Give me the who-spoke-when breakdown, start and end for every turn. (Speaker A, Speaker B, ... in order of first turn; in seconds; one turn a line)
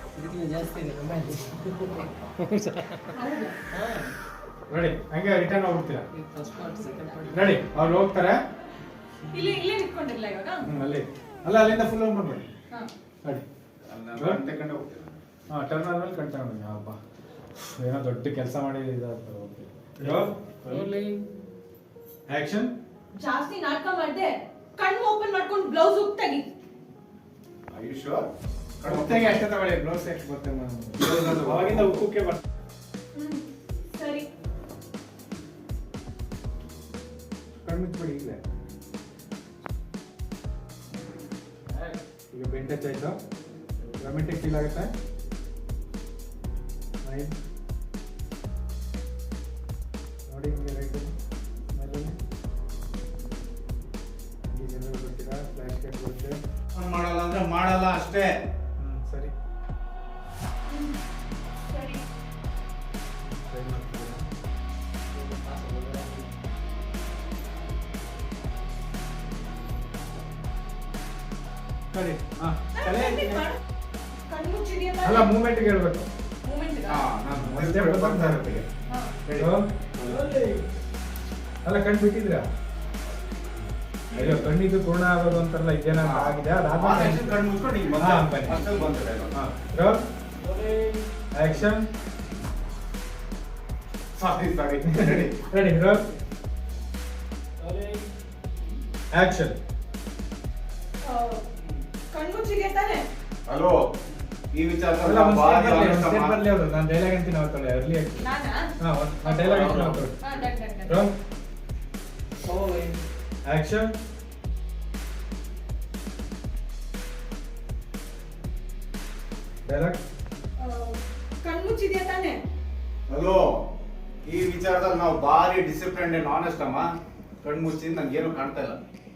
Speaker A: 0.1-3.0
Speaker B: 3.1-3.5
Speaker A: 3.7-4.1
Speaker C: 4.7-6.0
Speaker A: 6.1-7.6
Speaker C: 7.3-8.4
Speaker B: 9.3-10.7
Speaker C: 10.6-12.4
Speaker D: 13.8-15.2
Speaker C: 14.2-14.4
Speaker C: 15.5-17.0
Speaker C: 17.6-20.7
Speaker A: 20.0-21.3
Speaker C: 22.3-22.7
Speaker B: 23.1-26.4
Speaker D: 27.7-28.2
Speaker D: 28.8-29.4
Speaker C: 28.8-32.4
Speaker D: 31.0-32.0
Speaker B: 33.1-34.3
Speaker C: 37.6-38.4
Speaker A: 41.7-42.0
Speaker C: 42.3-43.2
Speaker C: 44.0-44.9
Speaker C: 47.0-47.3
Speaker C: 50.3-51.1
Speaker C: 51.8-52.2
Speaker C: 54.5-56.4
Speaker D: 56.7-58.3
Speaker C: 58.8-59.3
Speaker B: 60.7-61.0
Speaker B: 61.7-62.0
Speaker C: 63.4-64.2
Speaker A: 65.1-66.3
Speaker C: 71.9-73.5
Speaker B: 72.8-73.6
Speaker B: 74.3-75.3
Speaker C: 75.0-76.1
Speaker B: 76.4-77.0
Speaker D: 76.9-78.6
Speaker C: 77.3-78.4
Speaker D: 79.2-80.2
Speaker C: 79.3-79.7
Speaker A: 80.0-80.6
Speaker C: 81.6-82.5
Speaker C: 84.1-87.4
Speaker D: 84.1-84.5
Speaker D: 86.0-89.3
Speaker C: 88.0-88.7
Speaker C: 89.3-90.0
Speaker A: 90.4-91.1
Speaker C: 91.3-91.8
Speaker D: 94.2-95.3
Speaker C: 94.9-96.0
Speaker A: 97.6-98.1
Speaker C: 99.1-99.6
Speaker B: 101.0-101.4
Speaker B: 102.1-103.0
Speaker D: 103.5-103.8
Speaker D: 104.5-106.4
Speaker C: 105.0-108.3
Speaker B: 108.2-108.7
Speaker C: 108.8-110.2
Speaker B: 109.2-111.0
Speaker D: 109.5-110.0
Speaker A: 112.4-113.0
Speaker C: 113.5-113.9
Speaker C: 119.7-120.0
Speaker B: 120.6-122.4
Speaker D: 123.1-123.5
Speaker D: 124.2-126.9
Speaker D: 127.4-128.8